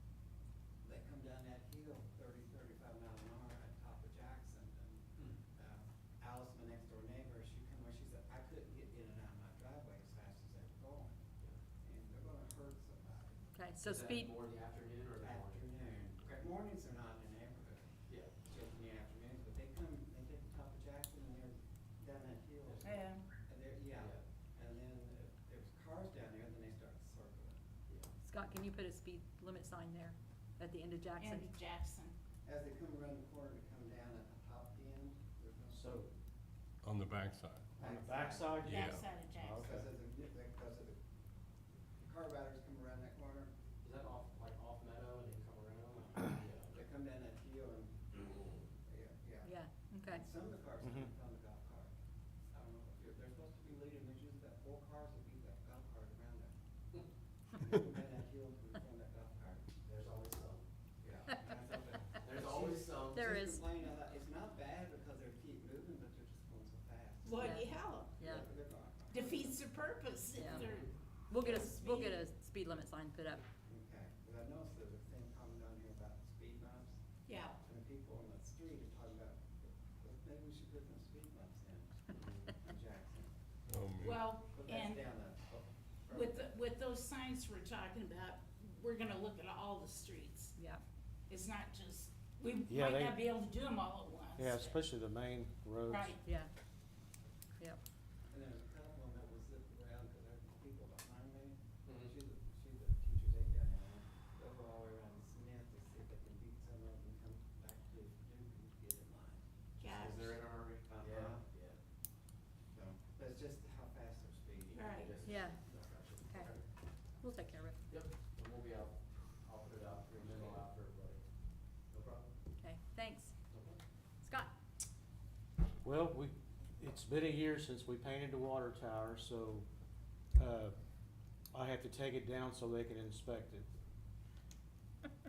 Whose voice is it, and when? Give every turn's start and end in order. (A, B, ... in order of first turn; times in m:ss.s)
0:00.8-0:11.2 A
0:11.8-0:13.5 A
0:13.5-0:14.3 B
0:13.8-0:16.1 C
0:15.2-0:27.6 A
0:18.1-0:18.3 C
0:22.6-0:22.9 C
0:22.8-0:23.2 D
0:24.0-0:24.2 C
0:28.2-0:31.5 B
0:31.2-0:32.1 D
0:32.4-0:36.0 A
0:35.7-0:36.1 E
0:36.8-0:37.7 F
0:37.8-0:38.7 A
0:37.8-0:39.9 E
0:38.6-0:39.0 F
0:38.7-0:39.7 D
0:39.6-0:41.0 A
0:42.0-0:43.5 A
0:43.8-0:46.8 C
0:46.0-0:49.5 A
0:49.4-0:50.3 B
0:50.1-0:51.9 A
0:50.8-0:51.1 E
0:52.5-0:56.5 A
0:57.5-0:59.7 A
0:59.8-1:00.6 C
1:01.0-1:09.6 A
1:02.2-1:03.3 C
1:03.1-1:03.6 B
1:07.2-1:08.2 D
1:07.4-1:07.6 B
1:08.2-1:08.5 B
1:09.1-1:12.2 D
1:10.4-1:10.7 B
1:10.4-1:10.9 C
1:10.5-1:10.8 A
1:11.3-1:13.4 B
1:13.7-1:17.0 A
1:17.3-1:17.6 D
1:17.6-1:23.3 A
1:22.2-1:22.5 C
1:23.7-1:24.3 F
1:24.0-1:25.1 D
1:24.5-1:26.5 A
1:26.1-1:30.6 D
1:30.6-1:30.8 B
1:31.3-1:34.8 D
1:32.7-1:33.2 E
1:34.4-1:36.2 E
1:35.9-1:36.2 D
1:36.2-1:36.5 B
1:38.3-1:49.4 A
1:41.9-1:42.2 C
1:49.8-1:50.4 D
1:49.9-1:51.8 C
1:49.9-1:51.5 A
1:52.7-1:55.6 A
1:54.7-1:56.6 C
1:54.7-1:55.1 D
1:55.2-1:55.6 B
1:56.3-1:56.5 B
1:57.2-1:57.8 B
1:57.9-2:01.2 C
2:01.9-2:02.3 C
2:02.6-2:03.3 B
2:03.5-2:03.8 C
2:04.2-2:04.5 B
2:05.8-2:09.7 E
2:10.4-2:10.8 E
2:11.5-2:13.7 E